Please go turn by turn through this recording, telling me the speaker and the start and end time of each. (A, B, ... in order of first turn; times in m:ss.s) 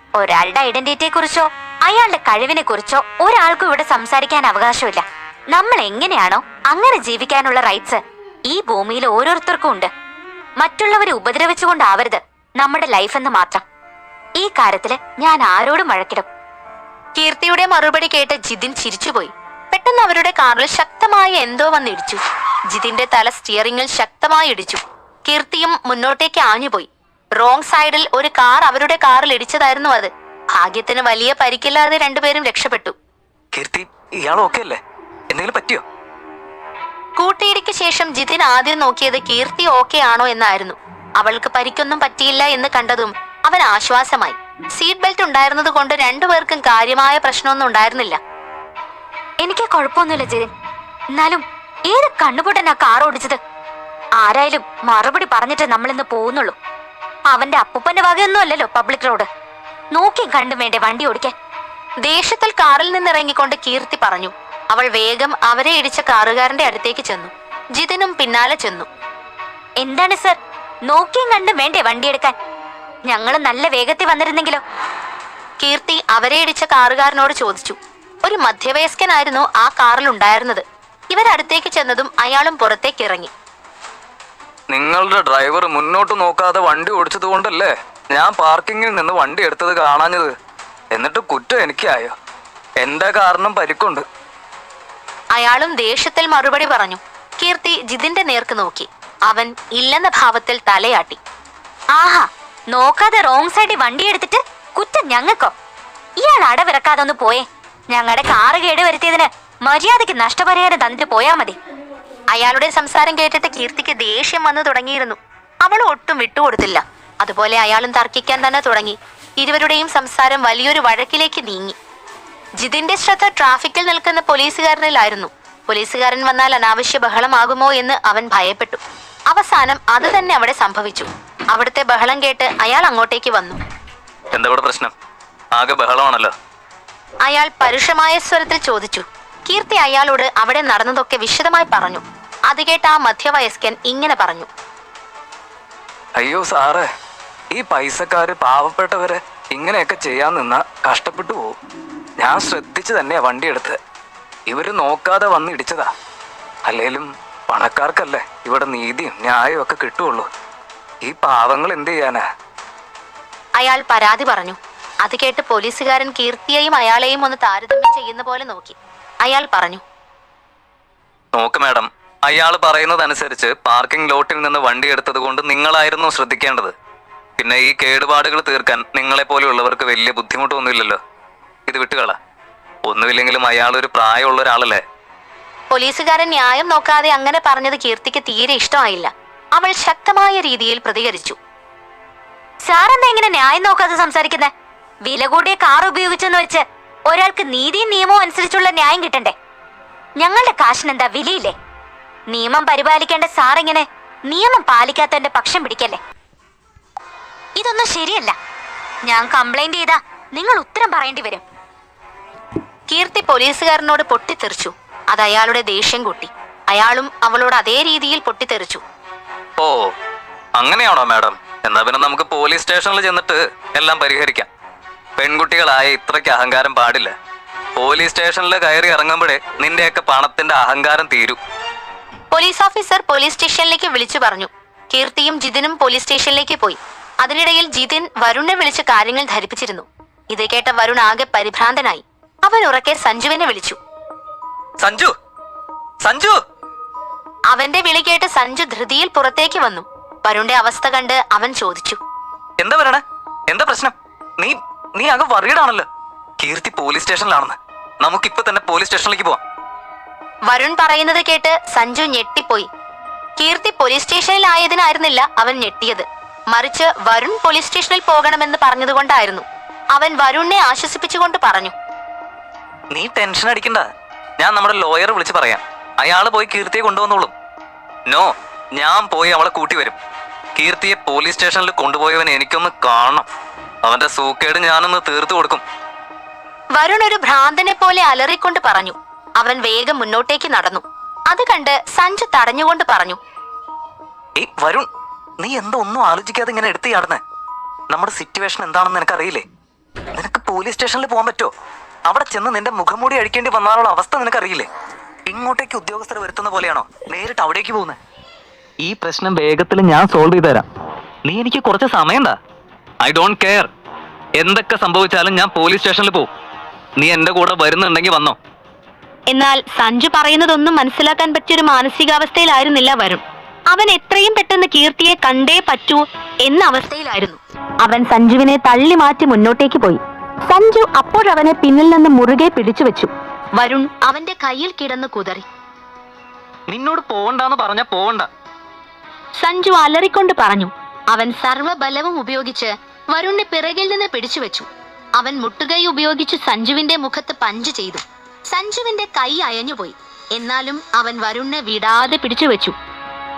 0:00.2-0:09.9 A
0:10.6-0:13.6 A
0:14.4-0:16.3 A
0:17.2-0:22.2 B
0:22.7-0:32.9 B
0:33.5-0:34.8 C
0:35.3-0:35.8 C
0:37.2-0:48.2 B
0:49.4-0:50.5 A
0:51.1-0:53.4 A
0:54.2-0:56.6 A
0:57.2-0:59.3 A
0:59.9-1:01.3 A
1:02.0-1:08.9 B
1:09.8-1:12.3 A
1:13.0-1:14.6 A
1:15.6-1:23.3 B
1:24.7-1:30.3 C
1:30.9-1:32.1 C
1:32.8-1:34.0 C
1:35.3-1:41.2 B
1:41.9-1:45.5 A
1:46.2-1:51.6 A
1:52.3-2:01.8 B
2:02.6-2:13.6 B
2:14.3-2:14.9 C
2:15.5-2:16.3 C
2:17.2-2:24.5 B
2:26.2-2:26.9 C
2:27.5-2:31.5 C
2:32.2-2:33.8 C
2:34.5-2:35.9 C
2:36.6-2:40.3 C
2:41.0-2:42.2 C
2:43.6-2:49.8 B
2:51.3-2:56.7 C
2:57.4-3:01.0 C
3:01.7-3:02.2 C
3:02.8-3:04.8 C
3:05.7-3:11.4 B
3:12.6-3:14.5 A
3:15.0-3:19.3 A
3:20.2-3:21.5 A
3:22.3-3:26.0 A
3:27.6-3:28.4 A
3:29.0-3:31.4 A
3:32.9-3:38.8 B
3:39.6-3:39.9 C
3:40.6-3:44.5 C
3:45.2-3:47.1 C
3:47.8-3:51.4 C
3:52.3-4:03.8 B
4:04.8-4:05.1 C
4:06.0-4:06.4 C
4:07.5-4:12.0 B
4:12.6-4:15.9 C
4:16.4-4:19.4 C
4:20.5-4:22.7 B
4:23.4-4:31.7 B
4:32.9-4:33.8 C
4:34.4-4:37.3 C
4:38.1-4:40.0 C
4:40.6-4:43.3 C
4:43.8-4:45.6 C
4:46.8-4:53.2 B
4:54.4-4:54.9 C
4:55.4-4:57.2 C
4:57.9-4:59.4 C
5:00.2-5:01.5 C
5:02.1-5:04.7 C
5:05.3-5:08.0 C
5:08.8-5:10.7 C
5:11.2-5:12.4 C
5:13.0-5:13.7 C
5:14.4-5:16.3 C
5:17.0-5:18.4 C
5:19.3-5:35.5 B
5:36.7-5:38.3 C
5:39.4-5:52.8 B